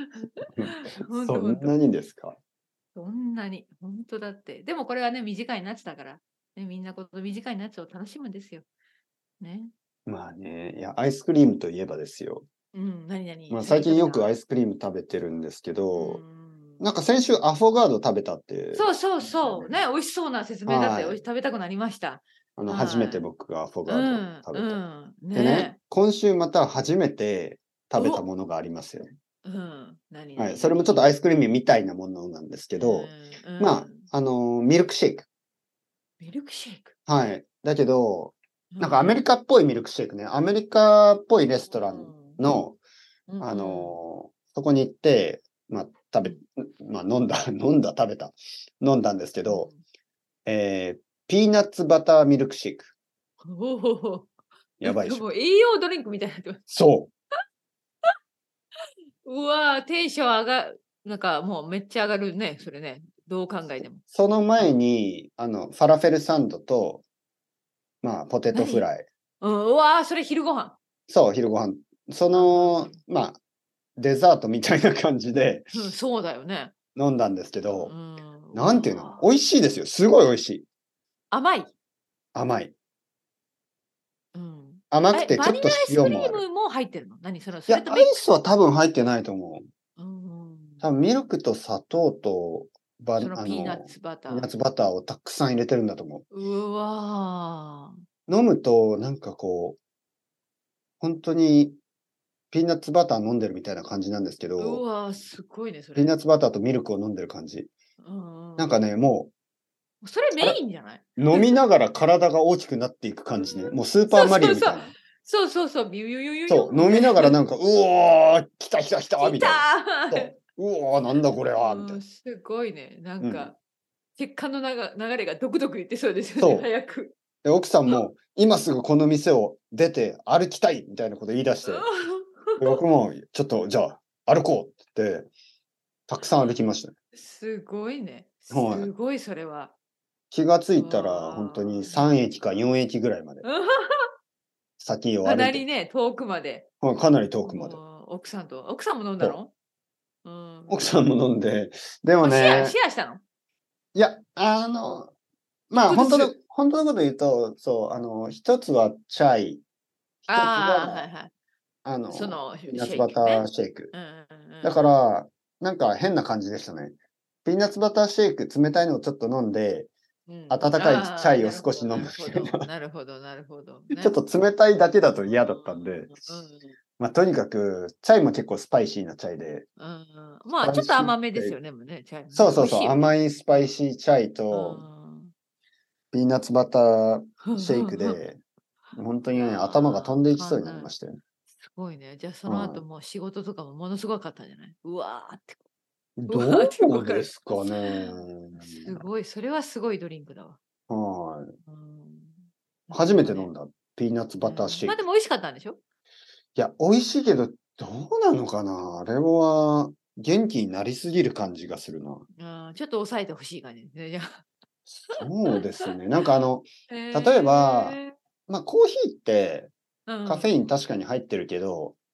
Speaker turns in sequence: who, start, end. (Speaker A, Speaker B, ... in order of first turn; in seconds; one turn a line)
Speaker A: 0.2-1.8
Speaker B: 0.6-2.4
Speaker A: 2.9-8.7
Speaker A: 9.4-9.7
Speaker B: 10.1-12.5
Speaker A: 12.7-14.3
Speaker B: 13.5-16.2
Speaker A: 15.9-16.9
Speaker B: 16.8-19.8
Speaker A: 18.7-23.2
Speaker B: 20.6-21.2
Speaker B: 22.6-24.8
Speaker A: 23.9-25.8
Speaker B: 25.3-29.1
Speaker A: 27.9-28.2
Speaker A: 29.4-31.2
Speaker B: 30.4-35.2
Speaker A: 32.8-34.1
Speaker A: 36.2-36.9
Speaker B: 37.1-42.8
Speaker A: 38.7-39.2
Speaker A: 41.6-42.6
Speaker A: 43.3-44.0
Speaker B: 43.4-49.7
Speaker A: 49.4-49.8
Speaker B: 50.5-52.9
Speaker A: 53.5-56.6
Speaker B: 54.8-55.3
Speaker B: 56.7-57.1
Speaker A: 59.2-64.0
Speaker B: 64.0-67.0
Speaker B: 68.0-69.0
Speaker A: 68.5-68.9
Speaker A: 69.4-70.8
Speaker B: 71.1-73.4
Speaker A: 72.3-73.0
Speaker B: 74.0-75.9
Speaker A: 75.7-76.7
Speaker B: 77.0-77.9
Speaker A: 77.8-79.3
Speaker B: 78.5-80.7
Speaker A: 81.3-81.7
Speaker B: 82.3-82.7
Speaker A: 84.3-88.2
Speaker B: 84.9-86.4
Speaker B: 87.7-89.7
Speaker A: 90.0-90.9
Speaker B: 90.8-96.2
Speaker A: 93.2-94.5
Speaker A: 96.3-98.0
Speaker B: 98.3-99.8
Speaker B: 101.0-101.8
Speaker B: 102.5-104.8
Speaker A: 104.6-106.2
Speaker B: 105.9-107.7
Speaker A: 108.0-108.8
Speaker B: 108.6-109.3
Speaker A: 110.0-111.6
Speaker B: 111.2-114.9
Speaker A: 113.4-117.4
Speaker B: 116.5-122.0
Speaker A: 119.2-120.3
Speaker A: 121.6-123.6
Speaker B: 123.2-123.5
Speaker A: 124.2-127.1
Speaker B: 126.4-126.7
Speaker B: 127.4-131.9
Speaker A: 131.7-132.8
Speaker B: 132.6-135.3
Speaker B: 136.1-136.9
Speaker A: 136.2-136.6
Speaker A: 137.1-139.7
Speaker B: 138.5-138.9
Speaker B: 140.3-143.4
Speaker A: 140.7-142.2
Speaker A: 143.4-144.1
Speaker B: 144.8-145.6
Speaker A: 145.2-146.7
Speaker B: 146.8-147.8
Speaker A: 147.4-149.5
Speaker A: 150.2-150.9
Speaker B: 150.7-152.8
Speaker A: 152.2-153.2
Speaker B: 153.9-155.1
Speaker B: 155.7-159.6
Speaker A: 155.8-156.3
Speaker A: 160.3-161.3
Speaker B: 160.3-161.1
Speaker B: 161.8-163.9
Speaker A: 162.1-164.9
Speaker B: 164.6-169.9
Speaker A: 170.3-174.1
Speaker B: 170.5-172.6
Speaker B: 173.9-176.1
Speaker A: 175.1-176.7
Speaker B: 177.0-179.7
Speaker A: 179.8-183.8
Speaker B: 180.6-181.6
Speaker B: 182.3-184.8
Speaker A: 184.5-185.3
Speaker B: 186.1-188.4
Speaker A: 187.4-188.2
Speaker B: 188.9-191.2
Speaker A: 189.3-190.9
Speaker A: 191.6-195.6
Speaker B: 192.4-192.8
Speaker B: 196.2-199.1
Speaker A: 196.3-200.6
Speaker B: 200.9-201.5
Speaker A: 201.7-203.5
Speaker B: 202.9-205.0
Speaker A: 204.4-205.8
Speaker B: 206.6-212.2
Speaker A: 212.3-214.4
Speaker B: 214.9-219.7
Speaker A: 215.1-218.1
Speaker A: 220.1-220.5
Speaker B: 220.2-222.0